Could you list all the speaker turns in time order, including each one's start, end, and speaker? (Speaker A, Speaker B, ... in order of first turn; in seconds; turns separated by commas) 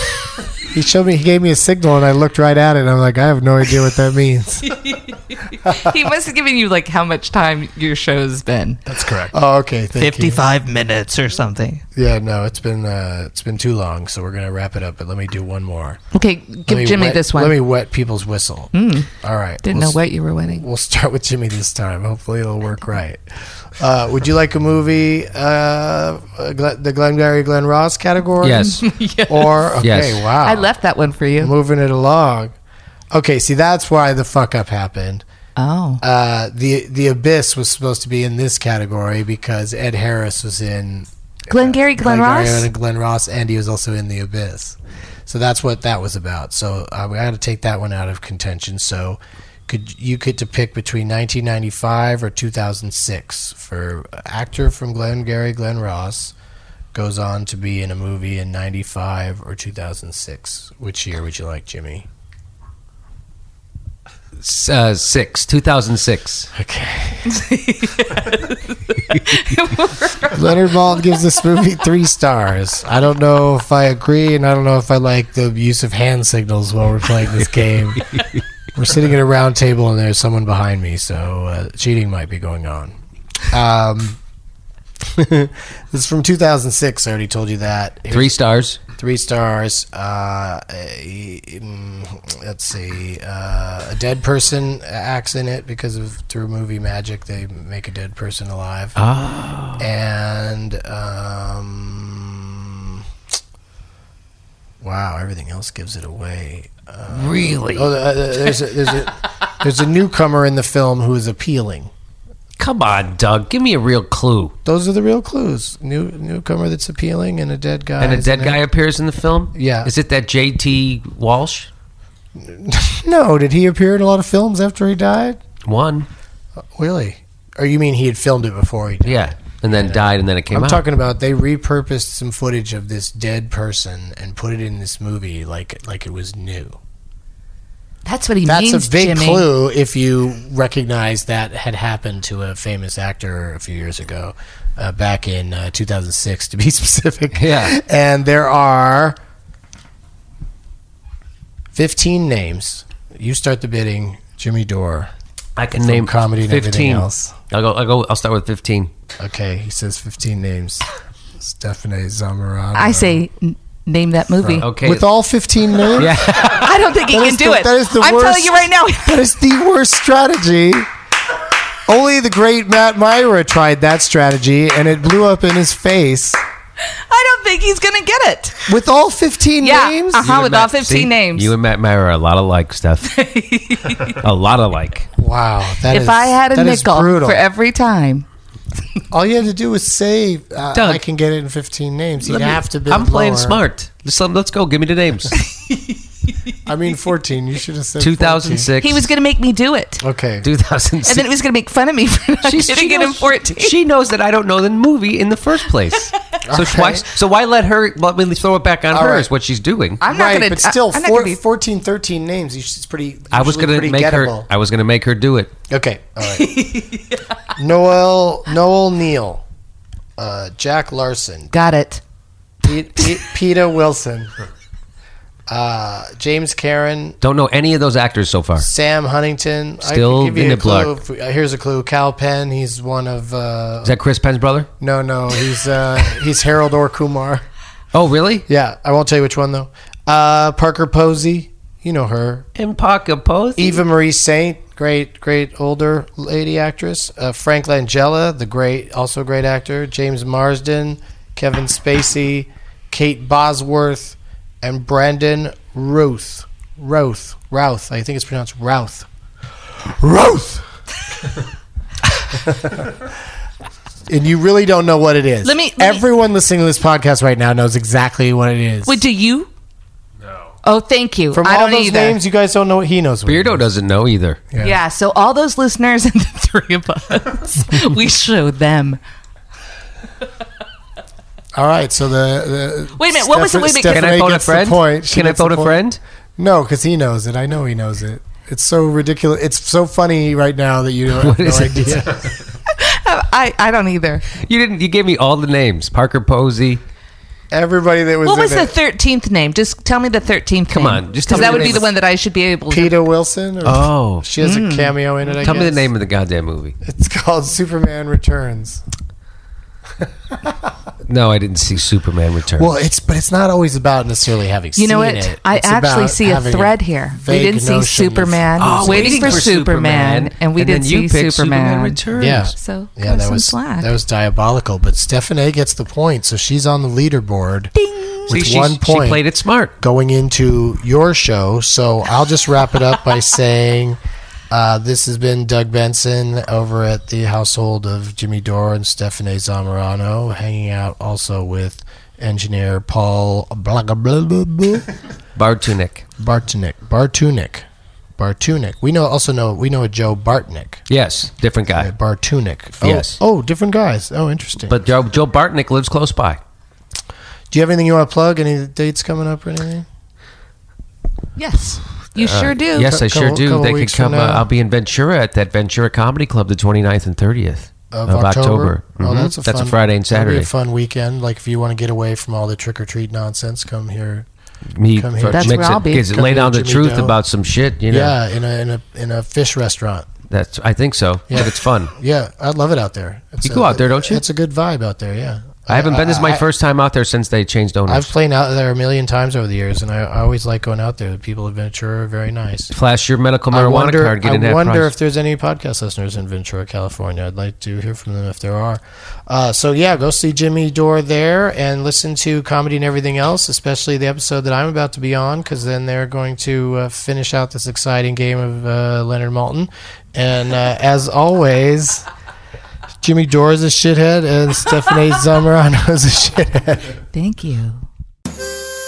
Speaker A: 0.6-4.8, Speaker B: 4.7-8.8, Speaker A: 8.9-10.5, Speaker B: 10.0-11.8, Speaker A: 11.9-16.0, Speaker B: 16.1-17.6, Speaker A: 16.7-30.7, Speaker B: 18.7-19.1, Speaker B: 19.6-20.6, Speaker C: 28.4-28.8, Speaker B: 28.8-29.8, Speaker C: 29.8-30.2, Speaker B: 30.4-31.5, Speaker A: 31.4-32.5, Speaker A: 33.1-35.2, Speaker B: 35.6-36.0, Speaker A: 36.0-56.3, Speaker B: 41.5-42.7, Speaker A: 56.9-62.1, Speaker C: 64.4-66.5, Speaker A: 66.5-67.3, Speaker B: 67.3-71.7, Speaker A: 70.3-78.1, Speaker A: 78.7-83.0, Speaker A: 83.5-84.2, Speaker A: 85.0-99.0, Speaker C: 88.1-88.8, Speaker C: 99.0-99.9, Speaker A: 99.8-103.0, Speaker A: 104.8-111.9, Speaker C: 107.1-107.9, Speaker C: 112.6-114.5, Speaker A: 114.7-118.6, Speaker C: 118.0-121.7, Speaker A: 119.5-119.9, Speaker A: 122.4-125.4, Speaker C: 125.7-126.1, Speaker A: 126.8-136.8, Speaker C: 129.1-130.8, Speaker B: 138.1-139.5, Speaker A: 138.4-149.2, Speaker C: 147.3-147.7, Speaker A: 151.7-155.1, Speaker C: 155.6-158.9, Speaker A: 155.7-157.4, Speaker A: 159.2-160.9, Speaker A: 161.4-163.2, Speaker B: 162.8-164.7, Speaker A: 164.4-166.4, Speaker C: 164.6-165.1, Speaker C: 165.9-166.7, Speaker B: 166.4-169.2, Speaker A: 167.0-170.9, Speaker A: 171.9-176.4, Speaker B: 177.1-178.6, Speaker A: 178.7-180.3, Speaker B: 179.6-181.5, Speaker C: 180.2-183.1, Speaker B: 183.1-184.2, Speaker C: 184.1-185.1, Speaker A: 185.2-187.5, Speaker B: 185.9-188.3, Speaker A: 189.1-193.6, Speaker C: 190.7-191.0, Speaker C: 192.3-195.4, Speaker B: 195.3-196.0, Speaker A: 196.7-198.7, Speaker C: 198.0-199.1, Speaker B: 198.8-200.0, Speaker A: 200.0-200.5, Speaker C: 200.4-201.3, Speaker B: 201.1-203.7, Speaker C: 202.4-210.0, Speaker A: 206.4-207.1, Speaker A: 208.9-209.3, Speaker B: 210.0-211.4, Speaker A: 210.0-214.5, Speaker C: 213.3-215.5, Speaker A: 215.7-216.8, Speaker B: 216.3-217.2, Speaker A: 217.6-219.4, Speaker A: 220.2-221.7, Speaker B: 221.5-222.0, Speaker A: 222.6-224.3, Speaker A: 225.5-227.2, Speaker C: 227.2-228.7, Speaker A: 228.6-234.0, Speaker C: 229.8-230.9, Speaker C: 233.8-234.7, Speaker A: 234.8-237.4, Speaker C: 237.9-238.5, Speaker A: 238.5-242.5, Speaker C: 242.6-243.8, Speaker A: 243.6-259.1, Speaker A: 259.7-260.6, Speaker A: 262.5-262.9, Speaker A: 264.1-269.0, Speaker B: 265.4-266.1, Speaker B: 268.9-269.5, Speaker B: 270.6-272.2, Speaker A: 271.3-273.7, Speaker C: 273.3-274.4, Speaker B: 274.6-279.0, Speaker A: 281.6-285.9, Speaker B: 283.0-284.1, Speaker C: 283.9-286.0, Speaker A: 286.4-292.3, Speaker C: 291.2-292.2, Speaker B: 292.7-294.2, Speaker C: 294.3-296.8, Speaker A: 297.5-298.7, Speaker B: 298.2-302.9, Speaker C: 300.7-301.9, Speaker A: 301.3-301.9, Speaker A: 302.7-305.9, Speaker C: 303.6-304.3, Speaker B: 304.4-304.9, Speaker C: 305.4-306.8, Speaker A: 306.8-308.8, Speaker C: 311.1-312.7, Speaker A: 312.6-319.5, Speaker B: 314.8-323.9, Speaker C: 318.6-322.5, Speaker A: 322.1-327.7, Speaker B: 327.8-328.4, Speaker A: 328.3-329.2, Speaker C: 328.3-329.7, Speaker A: 329.8-334.0, Speaker A: 334.5-344.9, Speaker C: 345.4-346.1, Speaker A: 346.2-347.7, Speaker A: 348.2-350.8, Speaker C: 350.9-351.9, Speaker A: 351.8-354.8, Speaker C: 352.8-353.2, Speaker C: 354.7-356.4, Speaker A: 357.5-359.9, Speaker B: 361.4-362.9, Speaker C: 362.2-370.5, Speaker A: 362.8-364.5, Speaker A: 367.9-374.3, Speaker C: 374.8-378.1, Speaker A: 374.9-377.2, Speaker B: 375.3-376.1, Speaker A: 377.9-380.1, Speaker C: 380.3-381.9, Speaker A: 381.3-386.5, Speaker C: 383.4-384.2, Speaker C: 385.7-388.1, Speaker A: 387.9-392.7, Speaker C: 392.7-394.9, Speaker A: 393.5-412.1, Speaker A: 413.0-417.0, Speaker B: 417.1-417.8